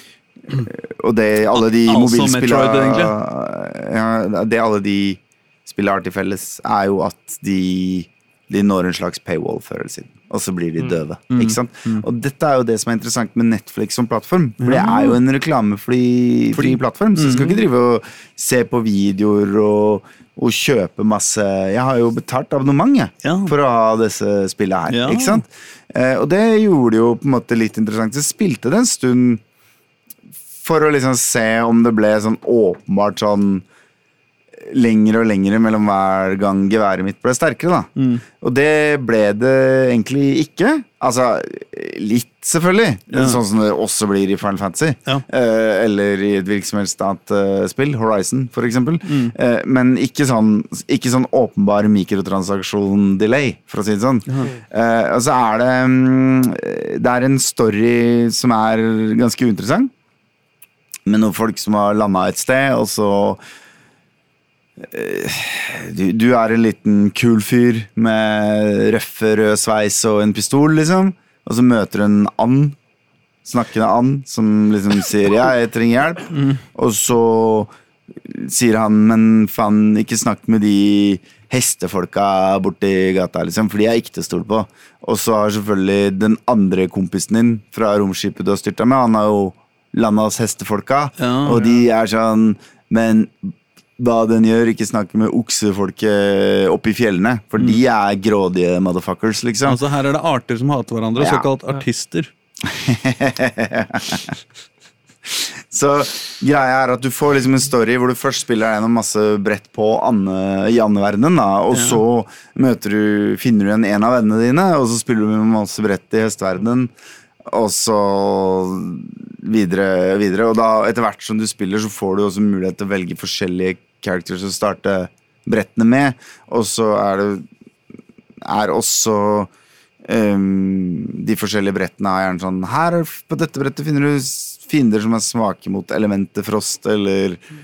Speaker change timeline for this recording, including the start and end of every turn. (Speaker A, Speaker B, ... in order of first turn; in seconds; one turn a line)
Speaker A: 0.5-29.4
Speaker B: 1.6-3.1
Speaker B: 11.3-12.1
Speaker B: 14.6-15.2
Speaker B: 16.5-17.6
Speaker B: 23.2-23.5
Speaker B: 24.9-25.4
Speaker A: 30.6-33.6
Speaker A: 34.6-59.9
Speaker B: 38.0-38.2
Speaker B: 43.1-43.4
Speaker B: 49.1-49.3
Speaker A: 61.1-63.4
Speaker A: 64.8-72.8
Speaker A: 73.5-99.8
Speaker B: 76.3-76.6
Speaker B: 91.2-91.7
Speaker B: 99.7-102.3
Speaker A: 101.2-101.5
Speaker A: 102.6-104.4
Speaker A: 105.3-116.9
Speaker B: 111.7-112.0
Speaker A: 117.5-127.4
Speaker A: 128.4-129.5
Speaker A: 130.0-137.4